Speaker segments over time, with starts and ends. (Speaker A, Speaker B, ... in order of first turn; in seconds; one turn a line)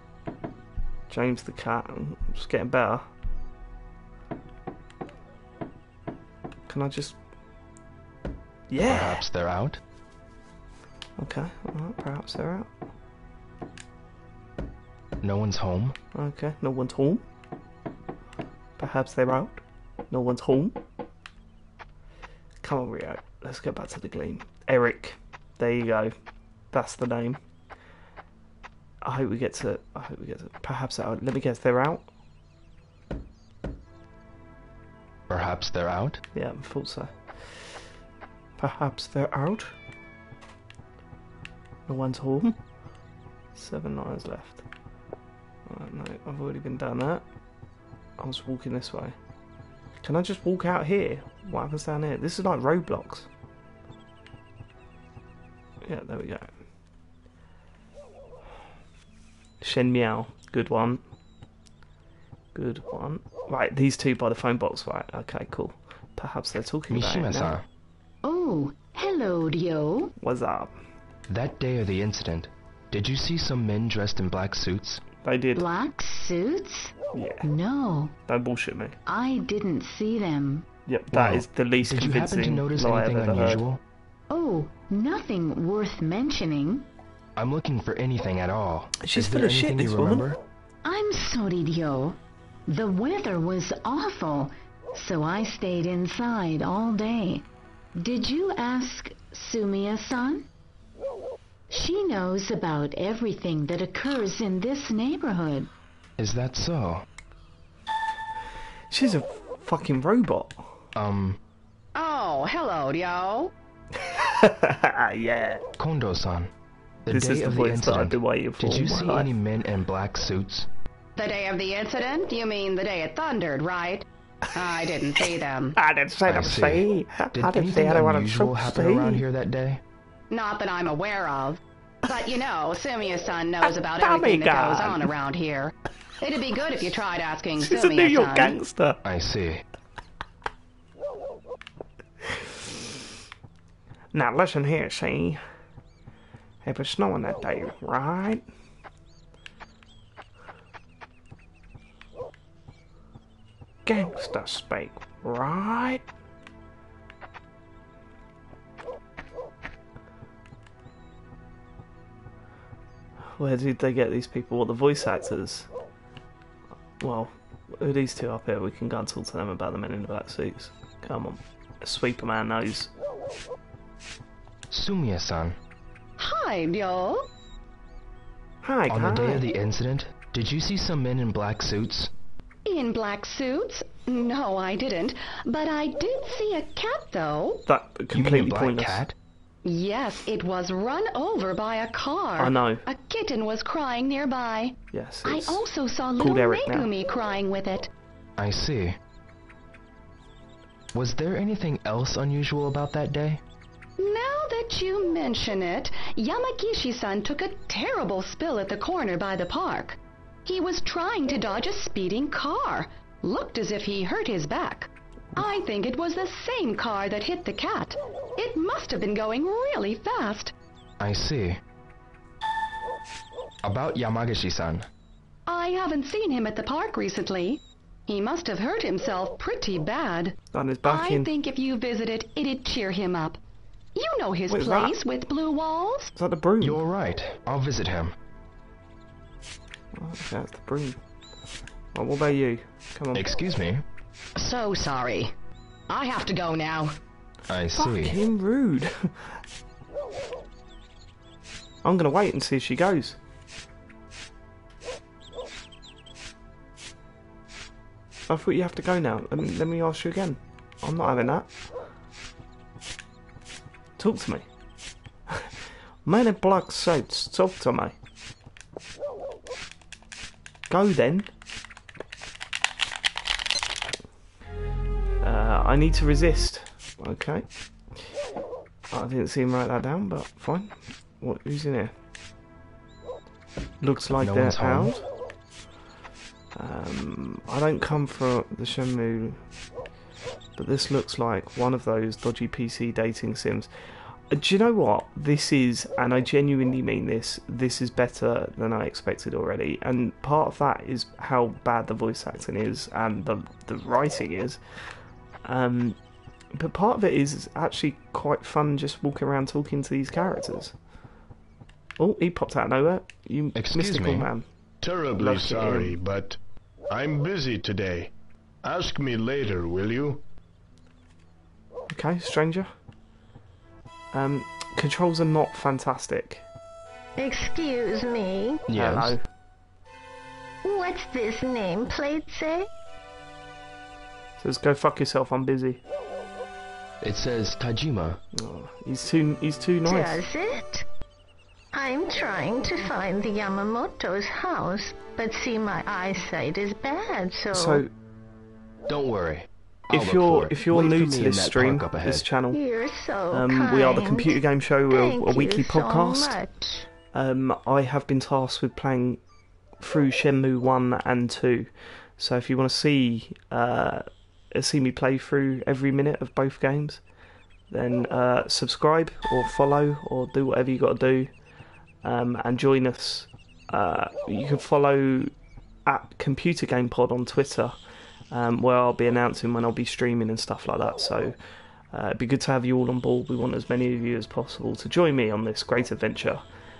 Speaker A: 1.1-3.1
Speaker A: 6.7-7.2
Speaker A: 8.7-9.2
Speaker B: 8.8-9.8
Speaker A: 11.2-12.7
Speaker B: 15.2-15.9
Speaker A: 16.1-17.2
Speaker A: 18.8-20.8
Speaker A: 22.6-26.1
Speaker A: 26.7-27.4
Speaker A: 29.0-32.0
Speaker B: 35.3-36.2
Speaker A: 36.3-37.8
Speaker A: 38.6-39.7
Speaker A: 41.9-42.5
Speaker A: 43.5-44.6
Speaker A: 45.6-47.2
Speaker A: 48.2-49.1
Speaker A: 50.0-53.3
Speaker A: 55.8-56.5
Speaker A: 59.6-61.0
Speaker A: 62.5-67.6
Speaker B: 66.9-67.6
Speaker C: 68.2-70.1
Speaker A: 70.2-70.7
Speaker B: 71.3-75.0
Speaker A: 75.2-75.7
Speaker C: 75.5-76.9
Speaker A: 77.1-77.5
Speaker C: 77.4-78.1
Speaker A: 78.3-79.0
Speaker C: 79.1-80.6
Speaker A: 80.9-83.6
Speaker B: 81.1-83.8
Speaker C: 84.3-86.8
Speaker B: 87.3-90.4
Speaker A: 89.0-90.2
Speaker C: 90.8-92.2
Speaker C: 92.7-97.4
Speaker C: 98.0-100.4
Speaker C: 101.7-105.7
Speaker B: 106.2-107.0
Speaker A: 108.9-110.7
Speaker B: 110.9-111.4
Speaker D: 111.9-113.5
Speaker A: 114.0-115.6
Speaker B: 115.8-116.5
Speaker B: 117.0-120.7
Speaker A: 117.1-119.3
Speaker D: 121.2-125.8
Speaker A: 125.8-129.2
Speaker B: 126.3-129.8
Speaker D: 130.3-138.6
Speaker A: 133.6-135.1
Speaker A: 137.6-139.0
Speaker B: 139.0-139.6
Speaker A: 144.1-145.4
Speaker A: 146.6-148.4
Speaker A: 153.8-156.0
Speaker A: 163.3-165.7
Speaker A: 167.0-172.9
Speaker B: 174.7-175.6
Speaker D: 176.2-177.3
Speaker A: 178.6-179.5
Speaker B: 178.9-182.1
Speaker D: 182.6-187.6
Speaker A: 187.7-189.0
Speaker B: 188.1-189.1
Speaker D: 189.6-197.9
Speaker A: 192.4-192.8
Speaker A: 194.9-195.6
Speaker A: 196.2-196.9
Speaker B: 198.4-199.0
Speaker B: 200.9-203.4
Speaker D: 204.0-220.5
Speaker B: 221.0-221.6
Speaker B: 223.6-224.9
Speaker D: 225.4-233.4
Speaker A: 230.5-231.3
Speaker D: 233.9-236.1
Speaker A: 234.5-234.9
Speaker A: 236.1-236.8
Speaker B: 236.6-238.2
Speaker A: 239.9-241.0
Speaker A: 241.9-243.2
Speaker B: 243.1-243.8
Speaker D: 244.4-245.3
Speaker D: 245.9-247.0
Speaker B: 247.5-248.2
Speaker A: 247.7-249.3
Speaker A: 251.8-253.2
Speaker A: 258.3-261.5
Speaker A: 264.0-264.4
Speaker A: 266.0-267.9
Speaker A: 270.7-271.3
Speaker A: 275.2-277.4
Speaker A: 278.9-281.9
Speaker A: 283.8-285.0
Speaker B: 284.1-284.9
Speaker A: 286.5-289.4
Speaker A: 290.6-293.7
Speaker A: 294.3-304.6
Speaker A: 305.4-306.0
Speaker A: 306.5-310.7
Speaker A: 312.0-314.4
Speaker B: 313.5-314.3
Speaker E: 314.8-316.4
Speaker A: 315.2-316.0
Speaker E: 316.9-318.1
Speaker E: 318.6-320.2
Speaker A: 321.9-322.7
Speaker A: 324.1-326.4
Speaker F: 327.2-328.6
Speaker B: 328.7-329.1
Speaker A: 328.7-329.2
Speaker F: 330.6-332.6
Speaker A: 334.4-335.8
Speaker B: 337.0-338.2
Speaker A: 338.3-340.2
Speaker F: 339.9-340.8
Speaker F: 341.7-347.8
Speaker A: 347.5-347.9
Speaker B: 348.9-352.2
Speaker A: 349.9-352.6
Speaker F: 352.5-354.4
Speaker A: 353.3-356.4
Speaker F: 354.9-356.6
Speaker A: 357.1-359.2
Speaker A: 359.8-367.0
Speaker A: 367.7-371.3
Speaker A: 372.0-375.3
Speaker A: 375.9-377.8
Speaker A: 378.3-381.3
Speaker A: 381.9-386.4